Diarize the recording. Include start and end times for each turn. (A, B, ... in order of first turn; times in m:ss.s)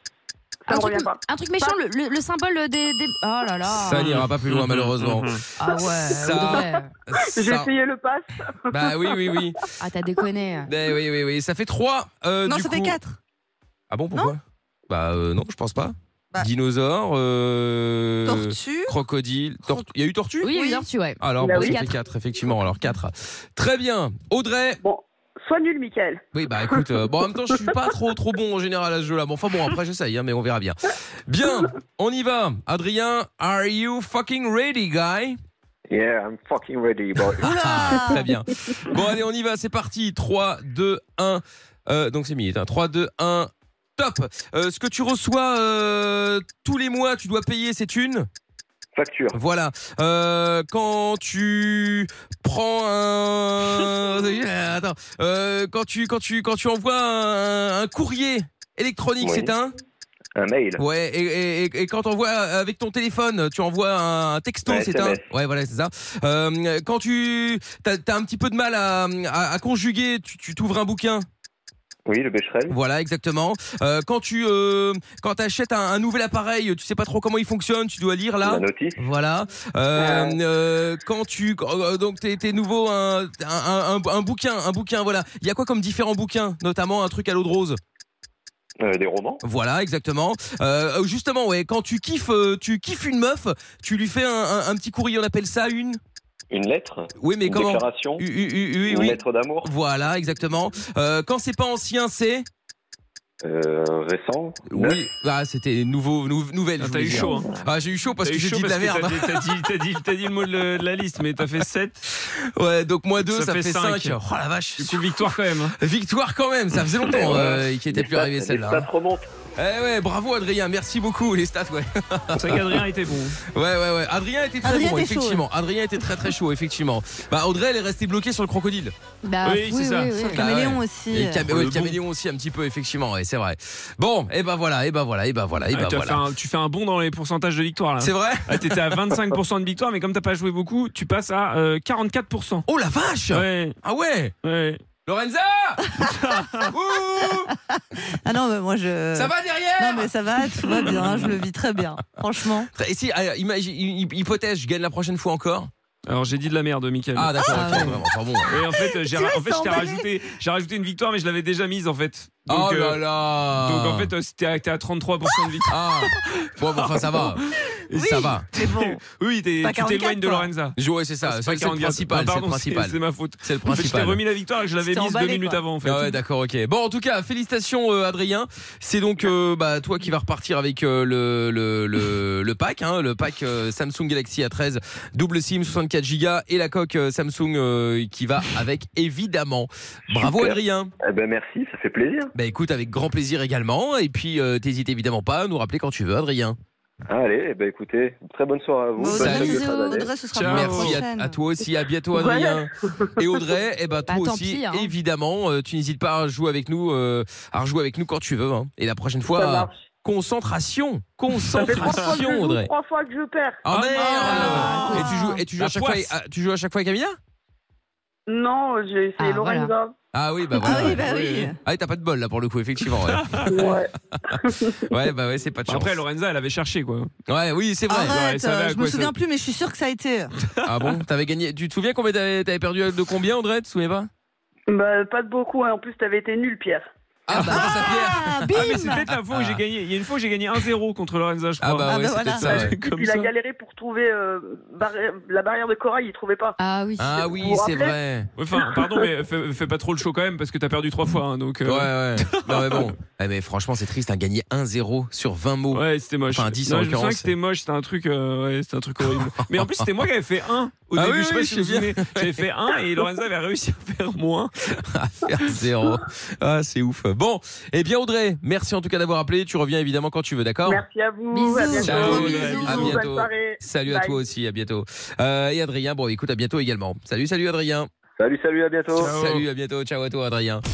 0:00.7-0:01.8 A
0:00.7-0:04.0 B
0:03.6-0:05.4 C
0:03.9-0:05.4 D
0:05.6-0:06.9 B
0:05.7-0:06.8 A
0:06.2-0:07.7 C
0:07.4-0:09.5 A
0:08.7-0:09.6 C
0:09.8-0:10.7 B
0:10.7-0:13.0 C
0:12.4-0:13.2 E
0:13.9-0:20.5 C
0:18.3-0:18.9 E
0:20.4-0:21.9 B
0:20.5-0:20.9 E
0:21.2-0:24.8 C
0:21.4-0:21.8 A
0:24.8-0:26.9 A
0:26.3-0:35.4 C
0:35.9-0:37.5 F
0:37.4-0:48.3 C
0:37.4-0:38.3 E
0:49.0-0:49.4 F
0:49.3-0:59.7 C
0:59.2-0:59.5 F
1:00.4-1:00.8 F
1:00.8-1:11.2 C
1:04.7-1:05.2 F
1:12.1-1:12.8 F
1:12.7-1:27.8 C
1:18.4-1:19.0 F
1:20.0-1:20.4 F
1:28.8-1:29.4 F
1:29.4-1:36.0 C
1:36.5-1:38.2 F
1:37.2-1:42.5 C
1:38.9-1:39.7 F
1:43.4-1:45.0 F
1:44.7-1:49.4 C
1:46.8-1:47.6 D
1:48.2-1:52.1 D
1:52.2-1:58.9 C
1:53.2-1:54.2 D
1:54.8-1:55.8 D
1:57.1-1:59.3 F
1:59.6-2:02.8 C
2:02.4-2:03.4 D
2:03.5-2:08.9 C
2:04.6-2:05.4 E
2:09.2-2:10.4 B
2:09.4-2:10.4 D
2:10.1-2:11.5 E
2:10.3-2:16.2 C
2:11.5-2:12.0 D
2:15.7-2:22.7 D
2:18.0-2:19.4 C
2:22.7-2:24.3 C
2:23.3-2:23.8 D
2:24.4-2:24.8 D
2:25.1-2:26.0 C
2:26.0-2:26.7 D
2:26.7-2:27.6 C
2:27.8-2:32.7 E
2:29.2-2:31.4 C
2:32.7-2:35.7 C
2:36.0-2:47.7 D
2:37.1-2:38.5 C
2:37.5-2:38.0 E
2:38.8-2:40.1 E
2:42.5-2:44.1 C
2:45.7-2:47.4 C
2:47.9-2:49.0 E
2:47.9-2:48.5 C
2:48.6-2:56.1 D
2:49.6-2:50.5 E
2:50.8-2:54.2 C
2:54.8-2:55.6 E
2:55.8-3:10.9 C
3:10.1-3:12.3 F
3:12.4-3:16.6 C
3:17.1-3:20.1 F
3:19.0-3:21.4 E
3:19.1-3:19.6 C
3:20.4-3:21.0 D
3:20.4-3:32.7 C
3:22.1-3:23.5 A
3:24.1-3:24.9 B
3:29.3-3:29.8 A
3:31.5-3:32.1 D
3:31.6-3:33.6 A
3:33.6-3:37.2 C
3:33.7-3:36.1 D
3:34.0-3:35.3 E
3:34.3-3:35.3 B
3:38.3-3:40.0 A
3:39.2-3:39.7 B
3:40.1-3:43.8 C
3:40.6-3:41.6 E
3:42.9-3:43.6 D
3:43.5-3:44.9 A
3:44.9-3:46.0 C
3:45.7-3:47.1 D
3:47.3-3:48.2 C
3:47.9-3:50.3 E
3:48.0-3:49.2 D
3:50.4-3:51.0 D
3:50.6-3:54.1 C
3:54.7-3:56.9 A
3:57.3-3:59.6 C
3:57.3-3:57.6 B
3:57.3-3:59.1 E
3:58.5-4:03.3 D
4:01.6-4:02.8 C
4:01.9-4:02.7 E
4:02.8-4:06.6 A
4:06.6-4:07.2 B
4:07.0-4:08.3 C
4:07.4-4:08.0 A
4:08.4-4:12.9 D
4:08.6-4:09.1 A
4:11.6-4:17.3 C
4:15.7-4:24.7 D
4:19.0-4:19.9 C
4:20.9-4:22.4 C
4:24.7-4:30.8 C
4:30.7-4:34.2 A
4:31.3-4:32.6 B
4:31.4-4:33.0 E
4:31.8-4:32.9 D
4:31.9-4:37.9 C
4:38.2-4:39.2 F
4:38.9-4:39.5 D
4:39.0-4:40.6 C